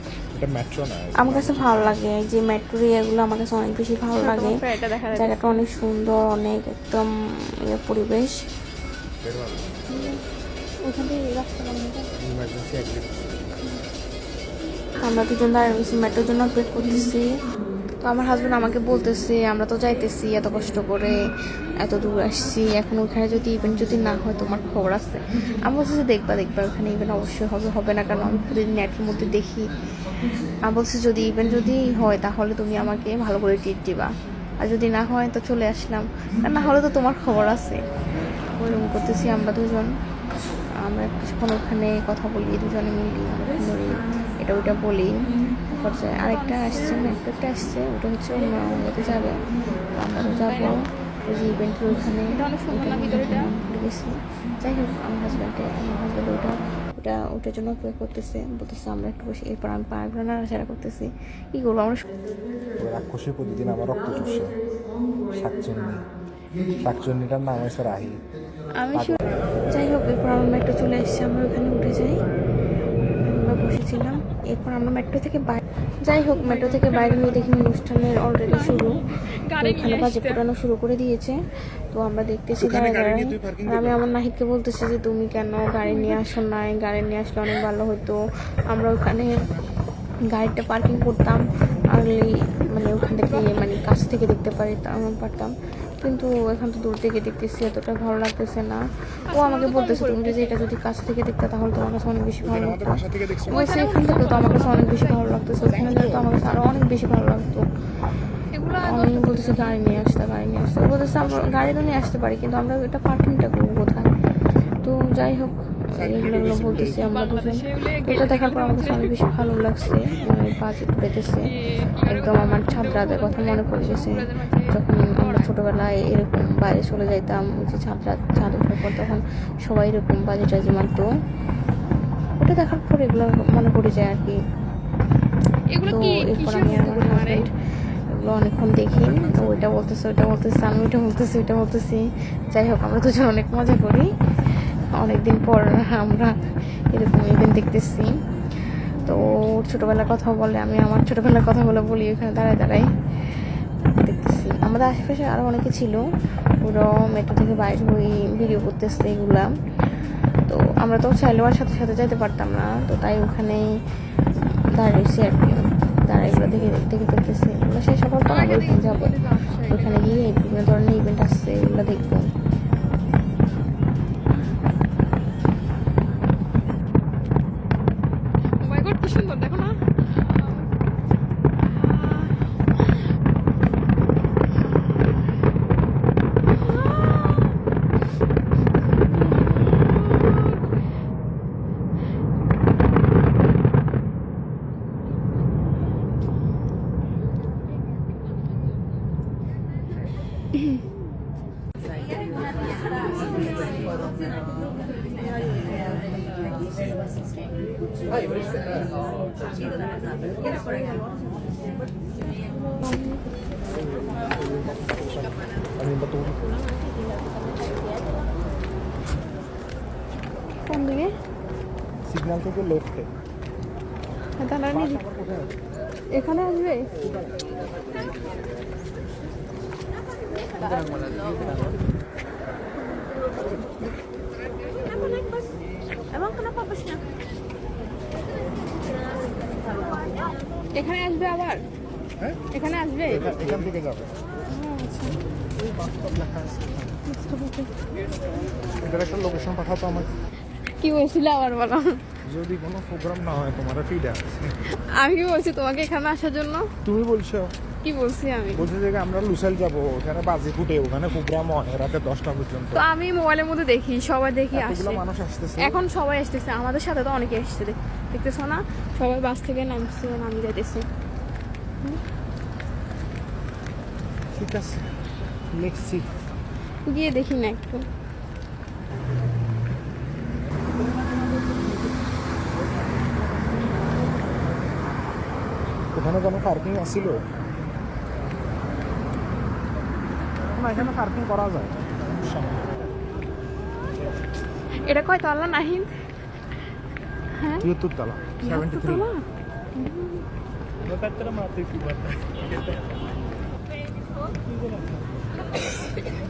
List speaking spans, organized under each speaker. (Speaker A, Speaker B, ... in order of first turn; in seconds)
Speaker A: 0.3-2.0, 9.2-9.8, 12.2-13.5, 62.8-64.6, 65.3-66.1, 66.8-68.2, 68.9-69.2, 82.6-84.0, 102.4-103.7, 105.6-106.8, 111.2-112.0, 115.9-117.1, 139.1-139.5, 166.2-166.8, 214.2-216.4, 222.1-223.1, 224.7-225.5, 243.1-244.1, 245.6-247.0, 248.8-250.1, 252.2-254.5, 256.8-257.5, 258.5-262.9, 264.5-265.8, 274.3-274.9, 275.5-276.1, 285.9-287.2, 290.6-292.7, 297.6-299.1, 300.8-302.6
Speaker B: 1.2-8.4, 15.0-17.2, 18.0-21.1, 21.8-29.7, 30.6-37.8, 38.5-39.9, 40.8-62.0, 68.9-72.2, 73.2-79.0, 79.5-81.4, 81.9-88.2, 88.7-89.4, 90.3-107.7, 108.8-114.1, 114.8-121.5, 122.1-131.1, 132.4-134.4, 135.8-137.6, 138.1-153.5, 154.0-156.0, 156.6-159.5, 160.5-163.7, 164.7-172.3
Speaker C: 4.2-5.6, 9.9-10.2, 10.8-12.1, 46.3-47.2, 50.3-50.8, 52.3-53.5, 76.2-77.5, 78.4-80.4, 85.8-86.2, 93.2-93.6, 99.2-100.6, 103.5-105.3, 108.5-110.2, 117.0-119.4, 121.4-125.5, 135.7-137.4, 168.2-170.3, 178.6-180.7, 181.6-182.5, 186.7-187.6, 212.8-213.2, 220.7-221.1, 224.4-225.0, 226.1-226.9, 236.1-237.0, 240.7-241.6, 242.5-243.4, 244.5-245.2, 247.0-247.7, 250.8-252.0, 254.7-256.7, 257.8-258.7, 262.7-265.0, 265.6-270.9, 276.9-277.8, 294.8-295.9, 297.3-297.7, 298.4-300.2